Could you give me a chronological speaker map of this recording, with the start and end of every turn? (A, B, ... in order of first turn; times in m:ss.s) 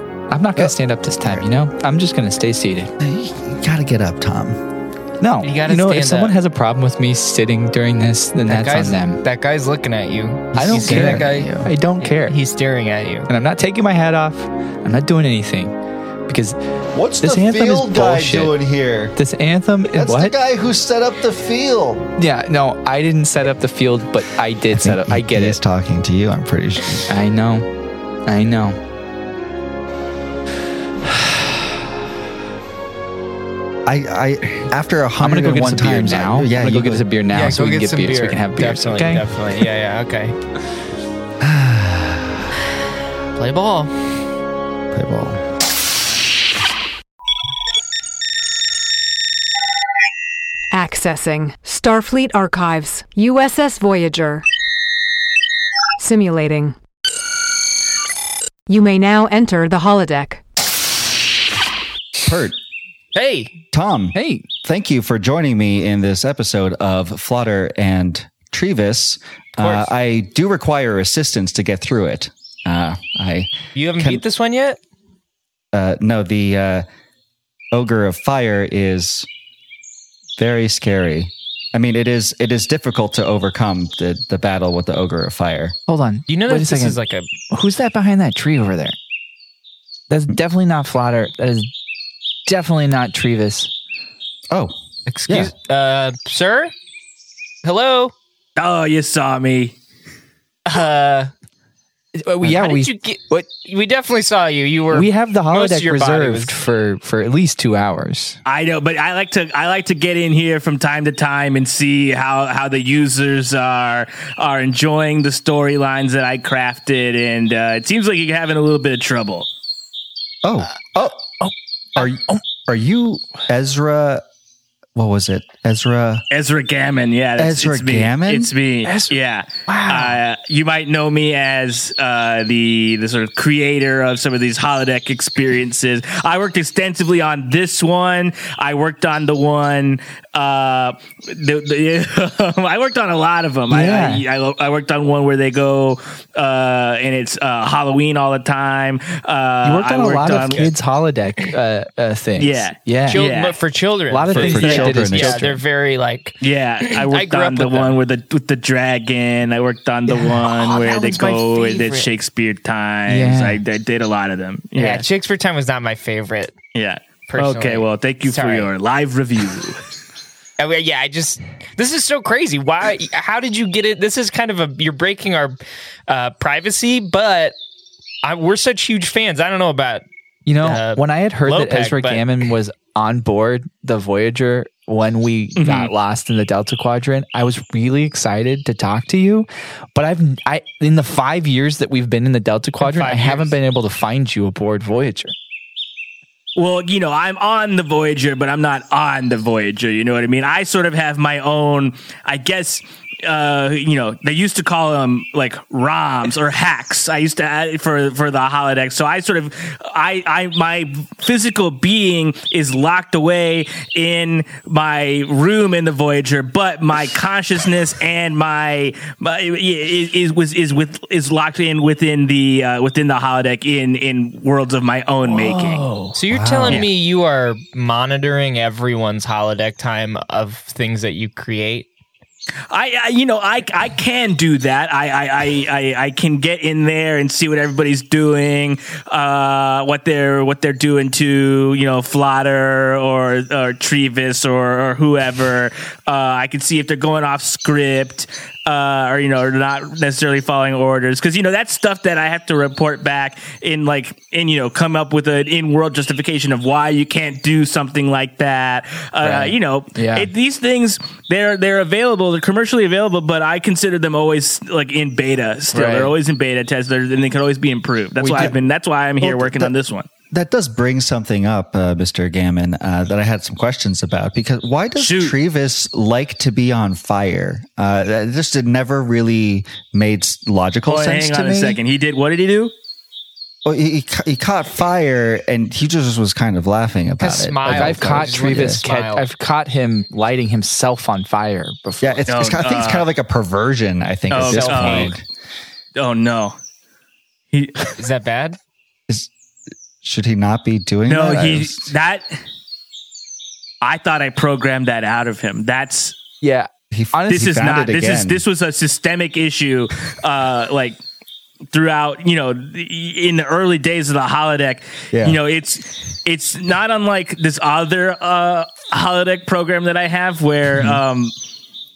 0:00.3-0:02.9 A
0:00.6-0:01.5 B
0:03.0-0:04.6 B
0:05.2-0:09.2 A
0:05.4-0:06.4 C
0:08.5-0:13.3 C
0:10.6-0:12.4 A
0:10.6-0:11.7 B
0:13.3-0:15.7 A
0:16.3-0:16.6 A
0:16.9-0:19.2 B
0:17.2-0:18.5 A
0:19.1-0:20.3 A
0:19.8-0:22.1 B
0:22.2-0:25.6 A
0:24.7-0:27.1 B
0:27.1-0:27.7 A
0:28.2-0:28.8 A
0:33.8-0:37.1 B
0:35.2-0:39.3 A
0:37.3-0:40.4 C
0:41.4-0:42.5 B
0:43.3-0:44.2 C
0:44.9-0:45.4 B
0:50.7-0:54.4 D
0:56.0-0:56.8 D
0:58.7-1:00.4 D
1:02.2-1:02.6 B
1:03.1-1:03.5 C
1:03.7-1:14.2 B
1:04.1-1:04.5 A
1:09.6-1:09.9 C
1:13.7-1:14.8 C
1:15.7-1:16.8 B
1:17.7-1:19.3 B
1:20.4-1:25.8 B
1:25.9-1:27.0 A
1:26.3-1:27.3 C
1:27.5-1:29.0 A
1:30.1-1:31.7 A
1:32.4-1:33.7 A
1:35.1-1:36.7 C
1:35.3-1:35.5 B
1:37.6-1:38.1 C
1:38.6-1:39.7 E
1:40.6-1:41.3 C
1:42.2-1:43.5 A
1:42.4-1:46.5 C
1:44.9-1:48.4 A
1:48.4-1:59.5 E
2:00.4-2:01.4 B
2:02.0-2:04.2 B
2:04.9-2:06.2 B
2:06.3-2:30.7 E
2:07.4-2:08.5 B
2:08.8-2:09.1 A
2:09.6-2:10.2 A
2:23.7-2:24.2 A
2:29.6-2:33.3 A
2:32.4-2:33.6 E
2:33.1-2:38.0 C
2:34.1-2:35.6 A
2:34.3-2:35.4 B
2:36.4-2:45.0 E
2:40.1-2:42.1 C
2:43.1-2:43.6 A
2:44.7-2:46.6 C
2:46.7-2:49.8 E
2:47.3-2:48.7 C
2:50.6-2:57.6 C
2:58.2-3:00.0 C
3:00.4-3:15.3 A
3:00.6-3:02.5 C
3:05.6-3:05.9 E
3:12.8-3:13.5 C
3:16.6-3:45.8 E
3:45.2-3:46.2 A
3:46.1-3:51.9 C
3:46.3-3:46.8 B
3:52.7-4:30.1 E
4:19.2-4:20.3 A
4:25.7-4:26.1 A
4:28.2-4:28.5 A
4:29.2-4:29.8 B
4:30.3-4:41.8 B
4:35.0-4:35.4 E
4:40.8-4:42.7 E
4:43.6-4:48.8 B
4:47.2-4:49.3 C
4:47.6-4:52.2 A
4:52.0-4:55.2 B
4:52.3-4:53.1 E
4:54.3-4:55.1 E
4:54.4-4:55.1 C
4:56.0-4:56.6 E
4:57.5-4:57.9 E
4:58.0-4:58.6 C
5:00.0-5:01.9 B
5:01.0-5:02.4 E
5:03.8-5:06.2 E
5:06.4-5:07.4 A
5:06.9-5:08.4 B
5:07.3-5:11.0 E
5:11.7-5:21.3 E
5:15.1-5:15.4 B